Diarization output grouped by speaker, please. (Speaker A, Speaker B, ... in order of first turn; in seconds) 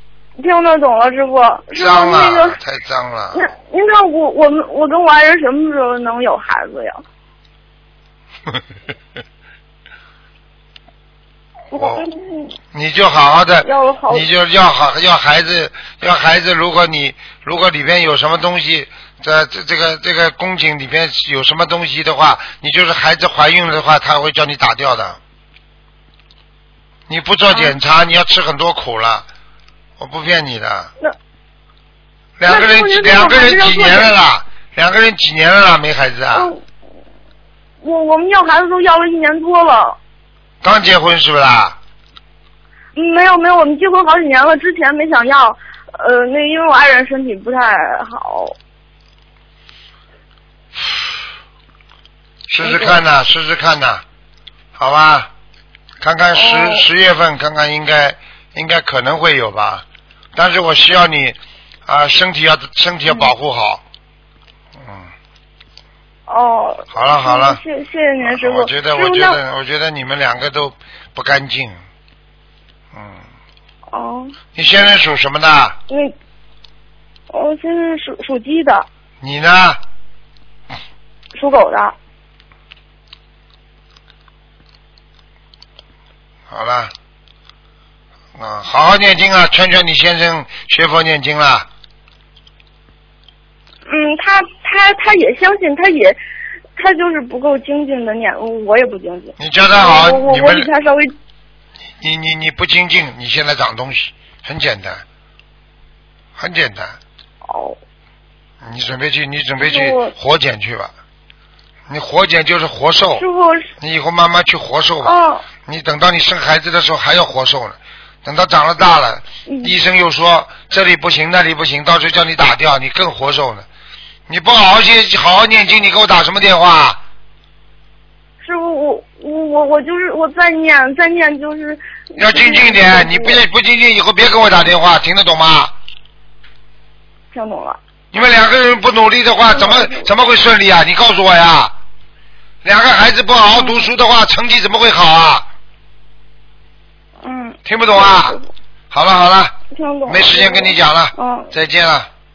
Speaker A: 0.4-2.6, 3.3-7.0, 11.7-12.5, 13.6-14.3, 27.5-27.8, 32.5-34.1, 36.3-36.6, 37.8-40.0, 43.0-48.6, 52.6-53.0, 56.3-56.9, 63.1-63.3, 66.3-69.4, 73.9-74.3, 75.9-76.2, 77.3-78.9, 81.3-82.0, 93.9-96.2, 96.8-101.1, 107.4-107.8, 109.6-110.1, 113.2-113.7, 115.0-115.5, 119.5-119.8, 128.4-133.4, 137.3-137.8, 139.5-140.1, 143.5-143.9, 147.2-148.5, 149.7-151.5
Speaker B: 1.8-3.5, 11.8-12.1, 12.7-25.2, 27.1-29.3, 30.0-30.9, 32.4-36.5, 40.6-41.8, 52.5-54.0, 54.8-55.3, 56.0-59.8, 60.4-63.8, 64.8-65.1, 66.9-67.6, 68.2-71.8, 72.9-73.2, 74.5-75.8, 79.2-79.8, 86.5-86.9, 88.4-91.7, 99.4-100.7, 102.0-105.0, 106.4-107.0, 108.6-110.9, 111.9-113.2, 113.8-115.1, 115.7-123.7, 124.3-127.0, 132.2-135.7, 138.1-141.7, 142.6-145.5, 147.7-148.4, 148.9-152.1